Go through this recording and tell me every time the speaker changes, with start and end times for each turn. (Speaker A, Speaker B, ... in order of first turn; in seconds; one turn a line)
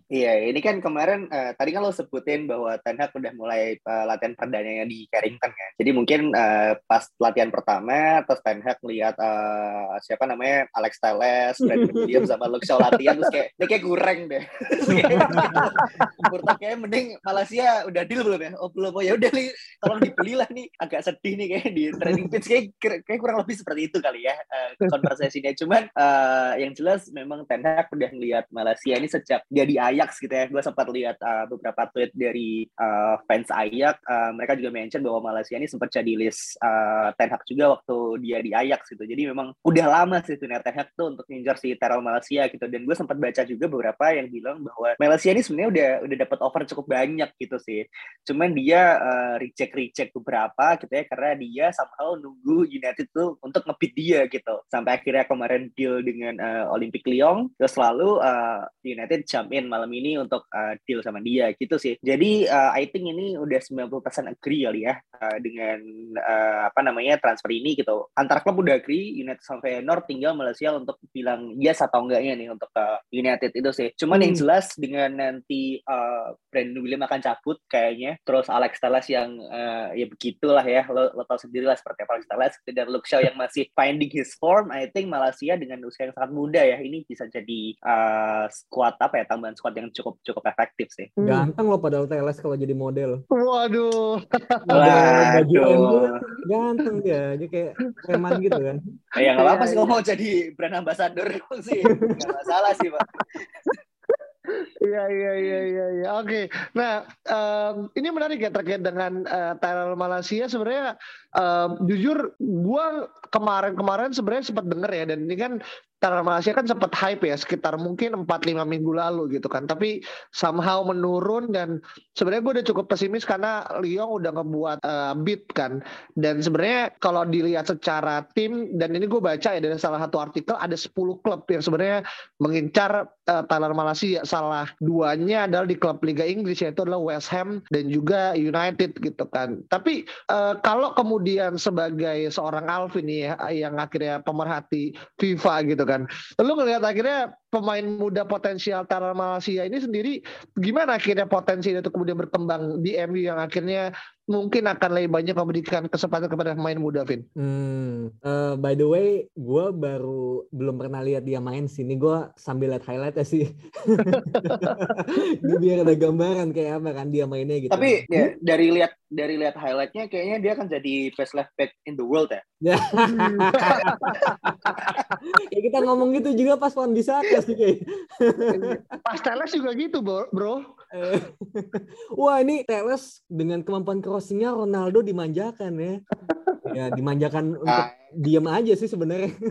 Speaker A: 0.1-91.1
Speaker B: 11.6-12.3
Speaker C: 12.9-13.3
Speaker B: 14.9-15.8
Speaker C: 15.0-16.3
Speaker C: 74.1-74.4
Speaker C: 91.2-91.5
Speaker B: 91.2-93.2
Speaker C: 93.3-95.9
Speaker B: 94.7-98.8
Speaker A: 94.7-96.1
Speaker C: 98.1-98.6
Speaker A: 99.2-103.0
Speaker C: 99.2-99.9
Speaker B: 101.9-102.2
Speaker C: 104.8-157.2
Speaker B: 157.4-168.3
Speaker C: 164.1-164.9
Speaker A: 167.7-172.4
Speaker B: 172.6-174.8
Speaker C: 173.0-175.2
Speaker B: 175.5-179.0
Speaker C: 178.5-180.6
Speaker B: 180.9-186.0
Speaker C: 186.3-186.6
Speaker B: 186.7-189.3
Speaker A: 187.7-188.0